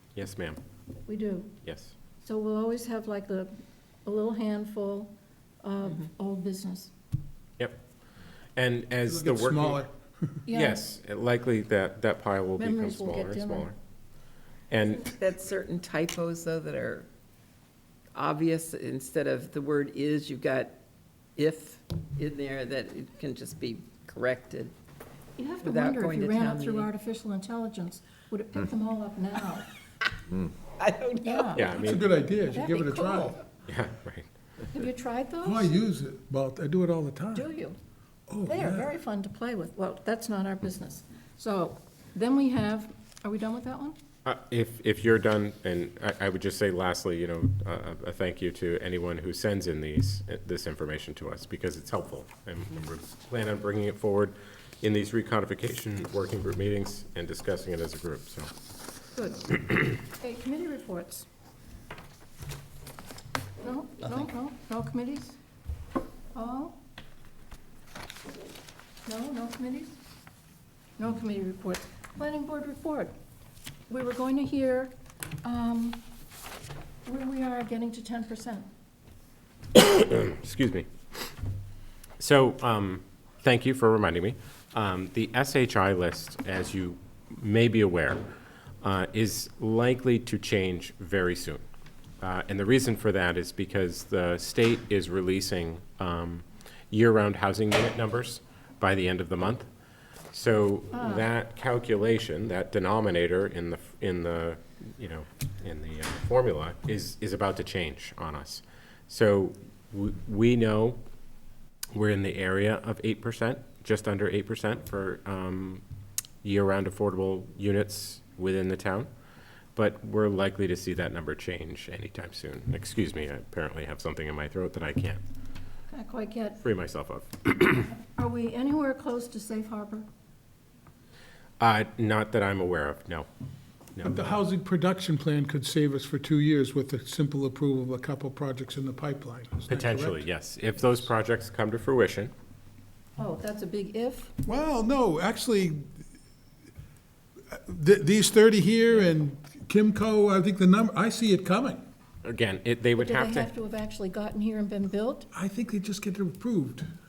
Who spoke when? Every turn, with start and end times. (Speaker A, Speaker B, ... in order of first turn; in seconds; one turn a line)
Speaker A: 0.2-0.6
Speaker B: 1.1-1.5
Speaker A: 1.6-1.9
Speaker B: 2.2-3.5
Speaker B: 4.0-6.9
Speaker A: 8.6-9.8
Speaker C: 9.1-10.4
Speaker B: 10.5-10.8
Speaker A: 10.5-13.8
Speaker B: 12.6-13.7
Speaker A: 14.7-15.2
Speaker D: 15.2-17.1
Speaker D: 18.1-20.8
Speaker D: 21.4-24.7
Speaker B: 25.4-29.7
Speaker D: 25.6-26.9
Speaker D: 30.8-31.7
Speaker B: 31.2-31.6
Speaker A: 31.5-32.1
Speaker C: 31.7-33.4
Speaker B: 32.5-33.4
Speaker A: 33.7-34.3
Speaker B: 34.7-35.7
Speaker C: 35.4-37.5
Speaker B: 37.3-37.8
Speaker C: 38.3-38.9
Speaker B: 38.5-44.0
Speaker A: 44.2-58.5
Speaker B: 59.2-59.5
Speaker B: 60.0-61.3
Speaker B: 63.6-65.4
Speaker B: 66.3-66.8
Speaker B: 69.1-70.0
Speaker B: 71.0-73.1
Speaker B: 73.9-76.0
Speaker B: 77.0-78.7
Speaker A: 79.7-80.9
Speaker A: 82.2-88.2
Speaker A: 88.8-91.6
Speaker A: 92.2-99.7
Speaker A: 100.3-111.0
Speaker B: 100.9-101.3
Speaker A: 112.0-115.8
Speaker A: 116.4-119.1
Speaker A: 119.8-125.2
Speaker B: 125.9-126.6
Speaker A: 126.6-127.8
Speaker B: 127.9-130.1
Speaker A: 131.6-133.3
Speaker C: 134.0-140.2
Speaker A: 139.7-142.3
Speaker B: 143.2-144.3
Speaker C: 144.4-145.9
Speaker C: 147.5-151.8
Speaker A: 152.2-153.5
Speaker B: 153.0-155.3
Speaker C: 155.3-156.9